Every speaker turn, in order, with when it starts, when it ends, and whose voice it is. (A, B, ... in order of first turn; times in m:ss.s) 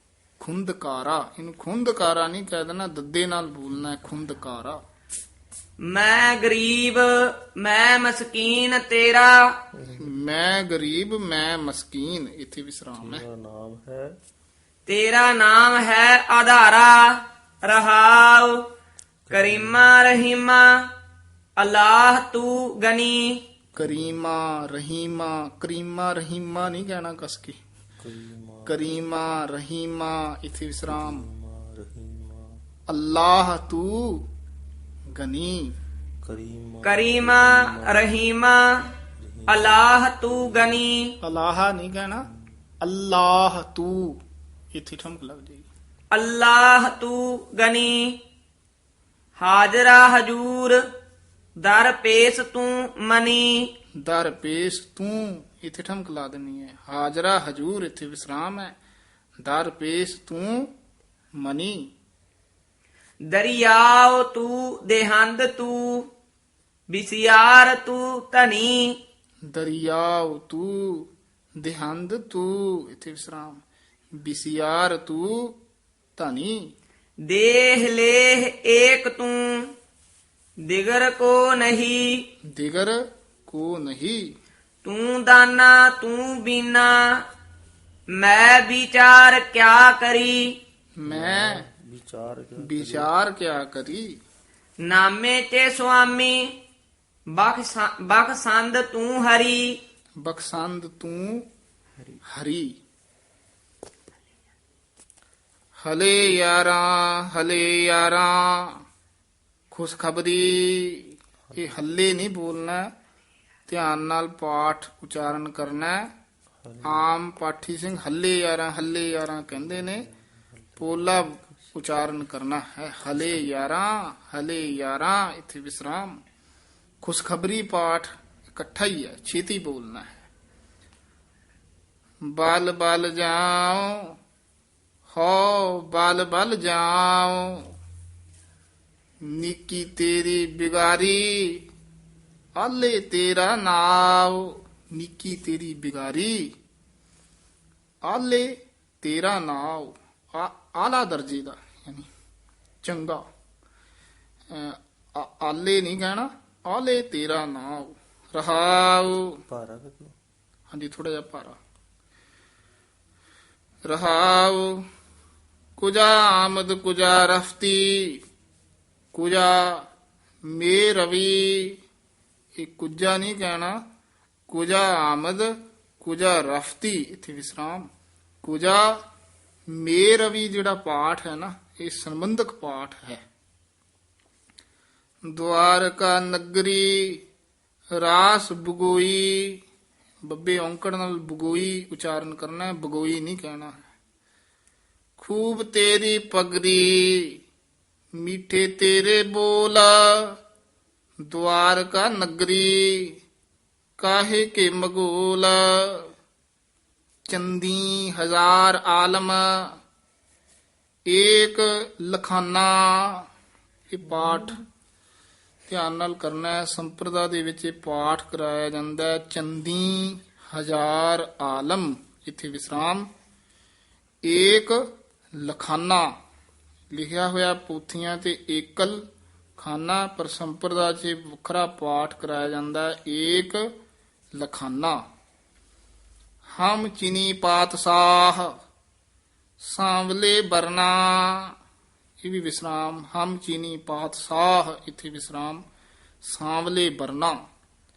0:00.4-0:04.8 A
0:05.8-0:09.6 B
0:09.8-0:10.0 C
0:10.0-0:13.2 A
0:13.0-0:14.1 C
0:14.8-0:18.6 B
0:19.3-0:19.8 C
0:19.3-0:20.9 B
0:21.6-0:23.4 B
0:23.8-0:27.6 A
0:28.0-0:28.8 C
0:28.6-0:31.2 A
0:30.9-0:32.5 C
0:32.9-0:34.2 A
0:35.1-0:35.7 A
0:36.2-0:38.1 C
0:36.8-0:38.9 B
0:39.2-0:39.8 C
0:39.5-0:41.1 B
0:41.2-0:42.3 A
0:42.8-0:44.2 A
0:44.7-0:45.6 A
0:46.1-0:48.2 B
0:49.4-0:50.8 B
0:51.6-0:53.7 B
0:54.0-0:58.7 A
0:59.4-1:00.7 A
1:01.4-1:01.9 A
1:03.3-1:06.1 B
1:06.9-1:09.0 B
1:09.5-1:11.1 A
1:11.6-1:13.6 A
1:14.2-1:15.6 A
1:16.2-1:16.7 A
1:17.3-1:19.7 B
1:20.7-1:22.2 B
1:22.5-1:24.4 A
1:24.8-1:27.2 B
1:28.1-1:30.6 B
1:31.0-1:31.6 A
1:31.0-1:33.1 C
1:32.6-1:34.2 A
1:34.8-1:36.6 B
1:37.3-1:39.8 B
1:40.2-1:41.5 A
1:42.3-1:42.8 A
1:45.8-1:48.8 A
1:49.7-1:52.9 A
1:53.7-1:56.1 A
1:56.8-2:00.0 A
2:00.8-2:06.2 A
2:07.0-2:10.2 A
2:12.2-2:14.2 A
2:15.1-2:17.6 A
2:19.2-2:21.6 A
2:22.6-2:26.5 A
2:28.0-2:32.1 A
2:32.8-2:33.2 A
2:34.5-2:39.4 A
2:39.5-2:40.1 C
2:40.7-2:41.6 A
2:43.9-2:44.8 A
2:45.8-2:48.2 A
2:49.1-2:49.9 A
2:50.4-2:51.8 A
2:52.6-2:53.8 A
2:54.5-2:57.9 A
2:58.4-2:59.0 A
2:59.7-3:03.2 A
3:05.3-3:07.2 A
3:07.9-3:09.6 A
3:10.2-3:13.7 A
3:15.2-3:17.4 A
3:18.2-3:20.4 A
3:21.3-3:23.2 A
3:24.0-3:26.1 A
3:27.3-3:29.8 A
3:31.1-3:33.3 A
3:33.9-3:34.6 A
3:35.7-3:43.1 A
3:44.2-3:46.1 A
3:46.9-3:49.0 A
3:49.6-3:53.7 A
3:54.3-3:55.0 A
3:56.5-3:58.5 A
3:59.6-4:01.5 A
4:02.2-4:05.6 A
4:06.2-4:07.4 A